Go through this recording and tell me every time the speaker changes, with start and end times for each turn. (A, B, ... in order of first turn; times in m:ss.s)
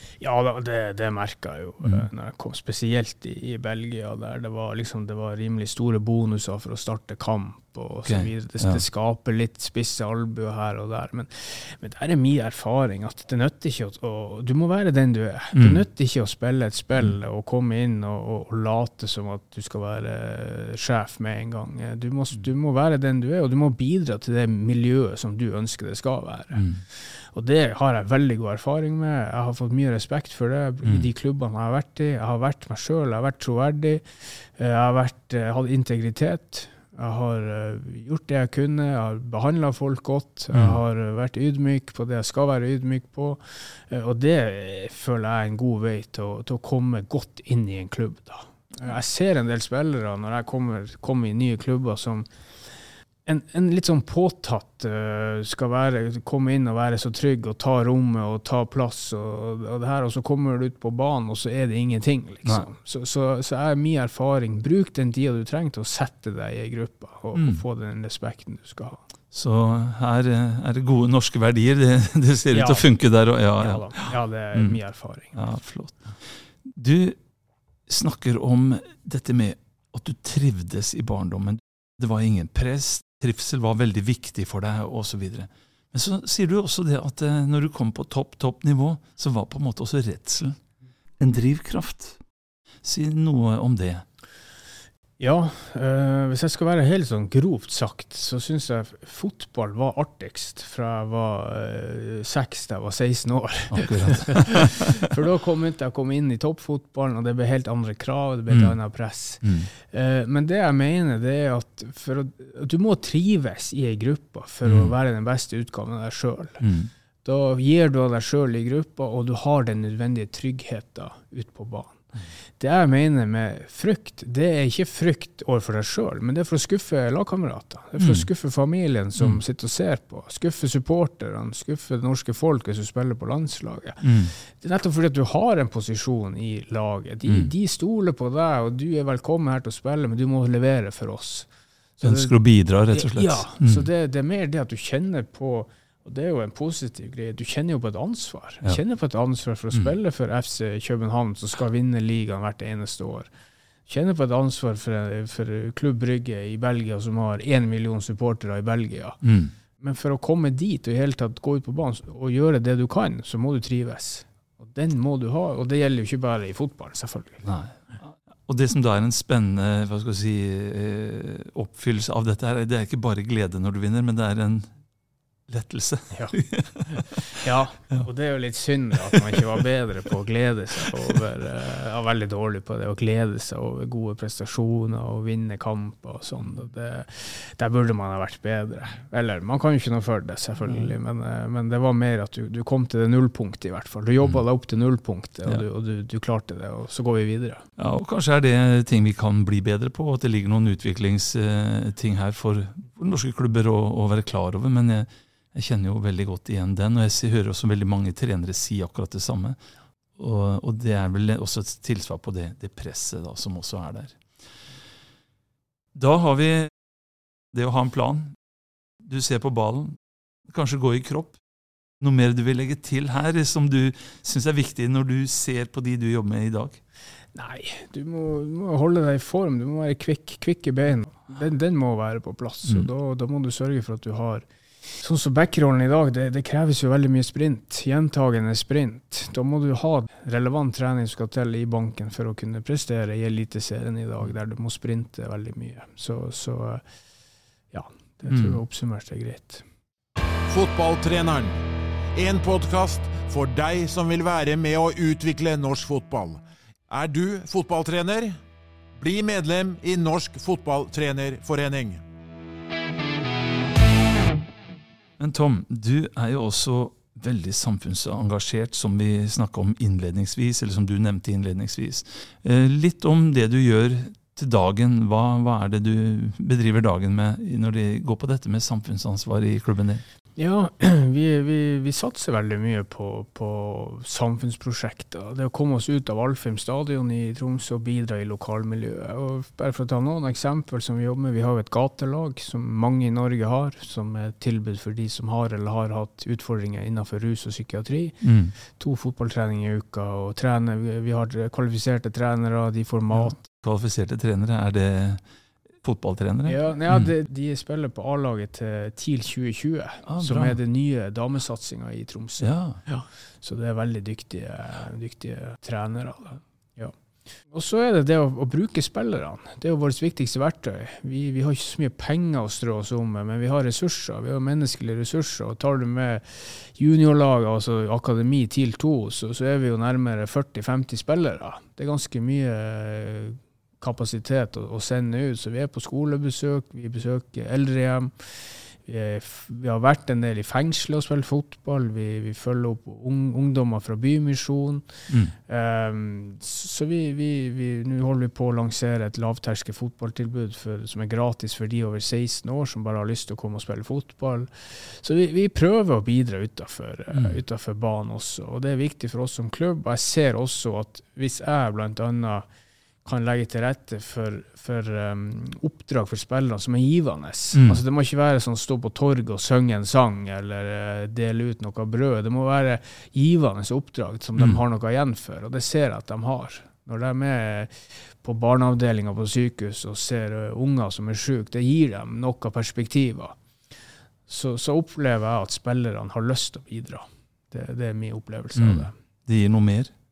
0:00.2-1:09.0 A
0:08.1-0:08.8 B
0:15.5-0:15.8 B
0:26.6-0:26.8 B
0:40.5-0:40.8 B
1:07.4-1:07.6 B
1:09.3-1:14.8 B
1:12.5-1:12.9 A
1:13.6-1:15.4 A
1:15.3-1:17.2 B
1:17.9-1:30.6 B
1:31.2-1:32.2 B
1:32.8-1:34.0 B
1:35.2-1:56.7 A
1:43.7-1:45.0 B
1:48.5-1:48.8 B
1:49.4-1:49.7 B
1:54.7-1:54.9 B
1:56.6-1:56.9 B
1:57.2-2:22.4 A
2:08.0-2:08.3 B
2:14.0-2:14.3 B
2:22.0-2:23.9 B
2:22.9-2:33.3 A
2:33.9-2:39.2 A
2:39.2-2:39.5 B
2:39.8-2:47.5 A
2:47.4-2:54.7 B
2:55.5-2:57.3 B
2:56.9-3:17.6 A
3:17.8-3:29.6 B
3:30.2-3:34.2 B
3:35.9-3:36.7 B
3:37.5-3:38.4 B
3:39.0-3:41.4 B
3:42.0-3:46.8 B
3:47.4-3:54.4 A
3:55.0-4:06.8 A
4:07.7-4:09.6 A
4:08.3-4:08.6 B
4:10.5-4:11.6 C
4:12.2-4:18.4 C
4:19.0-4:22.0 C
4:25.2-4:40.0 B
4:40.4-5:03.4 A
4:58.2-4:58.5 B
5:03.1-5:05.2 B
5:05.8-5:07.1 B
5:06.4-5:16.9 A
5:10.1-5:10.6 B
5:12.4-5:12.8 B
5:17.5-5:44.9 A
5:45.1-5:45.3 B
5:45.5-6:02.5 A
6:03.0-6:23.4 A
6:07.5-6:07.8 B
6:24.3-6:28.9 A
6:28.6-6:29.9 B